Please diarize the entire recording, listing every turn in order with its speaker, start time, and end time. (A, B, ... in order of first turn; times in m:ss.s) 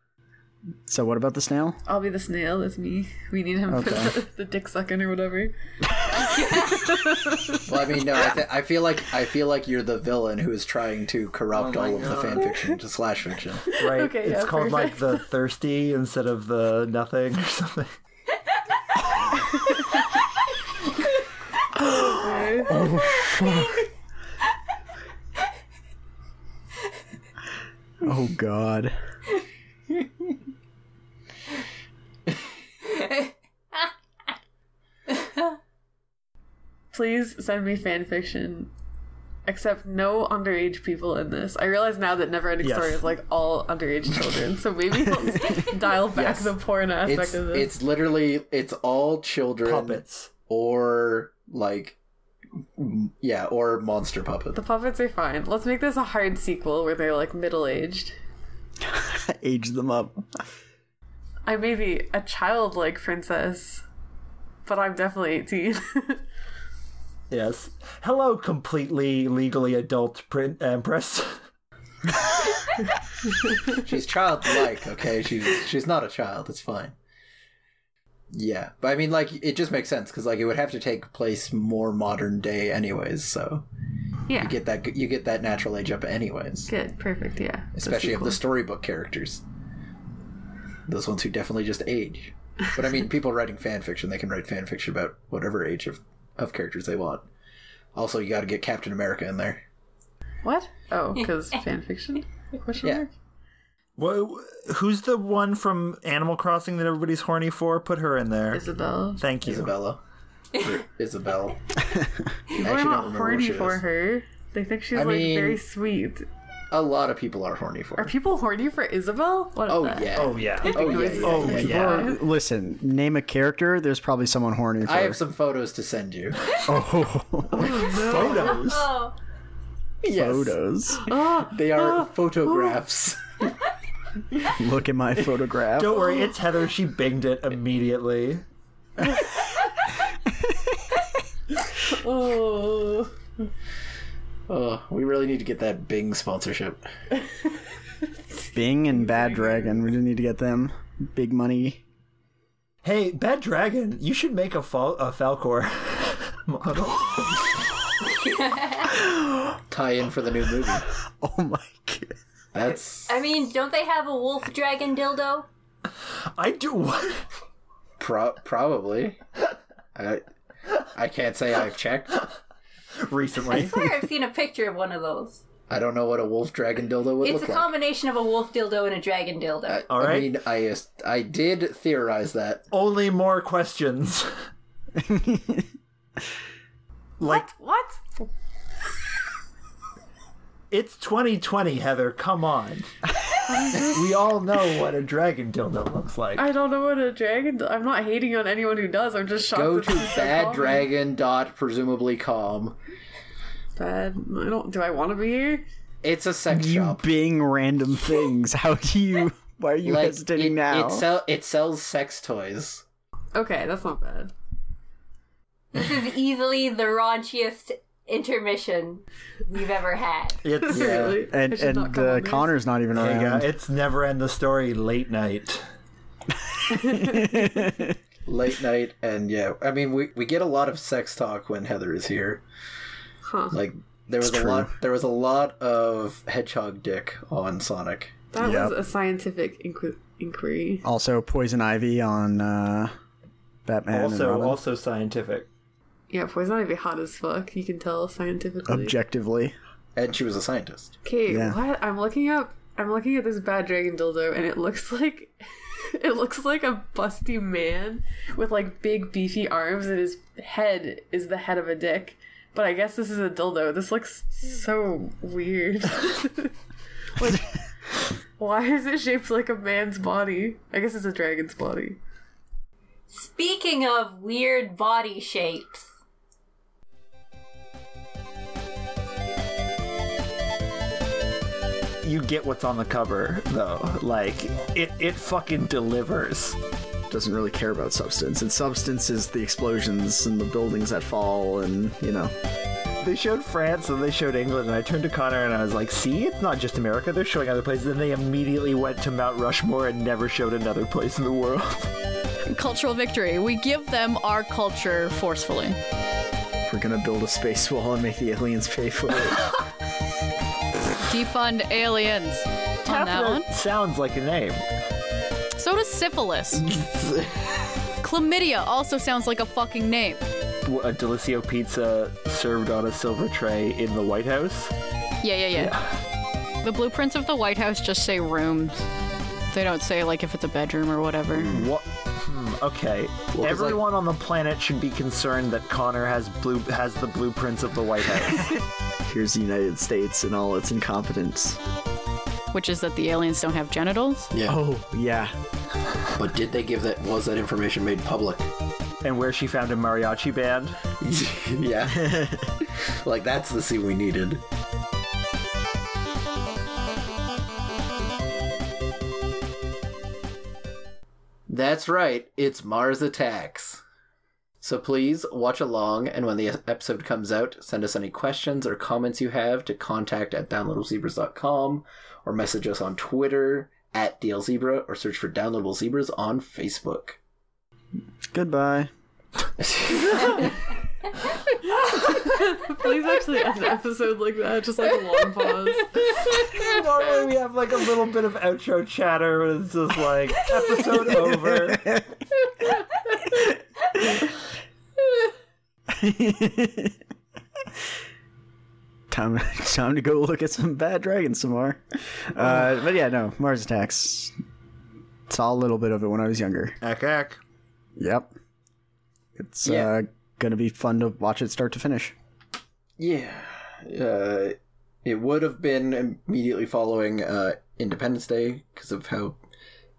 0:00.9-0:01.8 A
0:01.9-0:05.5 B
0:03.7-0:04.2 A
0:06.1-0:07.7 B
0:07.7-0:13.7 C
0:11.6-0:12.5 D
0:13.7-0:15.3 B
0:13.7-0:17.9 D
0:21.7-0:22.9 B
0:22.7-0:23.8 A
0:28.0-0:29.0 A
0:32.8-0:33.9 E
0:35.1-0:35.4 E
0:36.9-0:38.7 B
0:39.5-0:47.7 B
0:42.6-0:43.0 D
0:46.1-0:52.0 C
0:49.6-0:50.3 D
0:52.8-0:54.6 C
0:54.5-0:58.2 B
0:58.8-1:00.5 A
1:01.5-1:03.8 B
1:04.7-1:06.2 B
1:07.3-1:11.4 D
1:13.7-1:17.0 C
1:18.3-1:23.7 C
1:24.3-1:24.6 B
1:24.4-1:26.7 C
1:26.7-1:28.4 B
1:27.8-1:29.4 C
1:30.9-1:37.2 C
1:38.0-1:39.6 C
1:40.4-1:43.1 B
1:44.0-1:48.6 D
1:48.5-1:49.2 B
1:49.2-1:49.7 D
1:49.4-1:50.0 C
1:50.6-1:51.6 C
1:52.5-1:56.3 B
1:52.6-1:53.8 C
1:54.9-1:55.6 C
1:56.7-1:58.1 C
1:58.0-2:02.2 B
1:59.7-2:02.1 C
2:00.2-2:02.1 D
2:01.6-2:05.2 A
2:04.8-2:06.6 C
2:06.6-2:07.8 A
2:07.5-2:08.9 D
2:07.8-2:08.2 C
2:08.0-2:09.2 E
2:10.0-2:10.6 C
2:10.0-2:11.1 A
2:11.1-2:12.1 B
2:11.1-2:13.5 C
2:14.5-2:16.1 A
2:15.8-2:18.4 D
2:21.8-2:23.1 B
2:24.5-2:26.8 C
2:28.5-2:31.8 A
2:29.0-2:29.9 B
2:32.8-2:37.6 D
2:38.2-2:39.0 E
2:39.0-2:39.6 A
2:39.7-2:40.9 C
2:41.2-2:42.2 A
2:42.5-2:43.2 C
2:43.1-2:45.5 E
2:46.4-2:47.3 D
2:48.0-2:49.2 C
2:50.0-2:50.3 C
2:50.9-2:52.3 C
2:53.0-2:53.9 D
2:53.5-2:55.4 E
2:55.7-2:57.7 C
2:57.2-2:59.9 E
2:59.7-3:02.6 C
2:59.9-3:00.4 D
3:02.7-3:04.4 D
3:05.0-3:05.7 A
3:07.2-3:07.5 D
3:07.3-3:08.2 B
3:10.7-3:12.9 D
3:13.5-3:14.0 B
3:13.7-3:16.5 D
3:16.4-3:20.9 B
3:19.5-3:22.8 C
3:23.8-3:25.6 B
3:26.0-3:27.1 C
3:26.5-3:31.1 A
3:29.8-3:32.8 C
3:33.3-3:34.3 B
3:35.7-3:40.4 E
3:40.4-3:41.2 D
3:40.6-3:42.6 B
3:40.7-3:41.2 C
3:41.3-3:43.5 A
3:42.9-3:45.6 D
3:46.7-3:48.0 A
3:46.8-3:47.3 B
3:48.3-3:52.4 C
3:53.2-3:53.6 B
3:53.5-3:58.2 C
3:54.2-3:54.7 A
3:58.3-4:00.9 B
3:58.4-3:58.8 A
4:00.8-4:02.9 A
4:03.7-4:04.6 A
4:03.9-4:05.5 D
4:06.1-4:09.0 B
4:08.7-4:09.6 A
4:10.0-4:11.0 C
4:11.0-4:26.6 B
4:11.3-4:11.6 A
4:27.2-4:27.6 B
4:28.4-4:32.0 B
4:33.1-4:35.9 E
4:42.0-4:46.6 D
4:47.1-4:52.3 A
4:53.0-5:01.9 D
5:02.5-5:05.8 F
5:06.7-5:09.4 A
5:11.0-5:13.4 F
5:12.9-5:14.6 D
5:15.6-5:16.6 F
5:16.6-5:17.5 C
5:18.0-5:20.2 F
5:20.6-5:24.7 D
5:25.2-5:25.8 F
5:25.5-5:25.9 D
5:26.6-5:28.9 F
5:29.5-5:31.5 F
5:31.4-5:31.7 A
5:31.4-5:38.5 D
5:33.3-5:33.8 C
5:39.0-5:41.6 A
5:42.5-5:44.3 F
5:44.3-5:44.6 C
5:44.4-5:45.3 A
5:46.2-5:48.5 C
5:49.0-5:51.0 D
5:51.0-5:52.1 C
5:51.9-5:52.5 A
5:52.6-5:54.4 C
6:01.5-6:03.8 C
6:04.6-6:17.2 C
6:18.3-6:18.9 A
6:19.6-6:20.3 C
6:22.1-6:26.1 B
6:26.0-6:32.0 D
6:31.7-6:32.0 A
6:35.9-6:37.0 A
6:39.1-6:44.4 A
6:45.3-6:46.8 A
6:46.8-6:47.4 D
6:48.0-6:48.3 A
6:49.4-6:52.2 A
6:49.6-6:49.9 C
6:53.0-6:59.4 C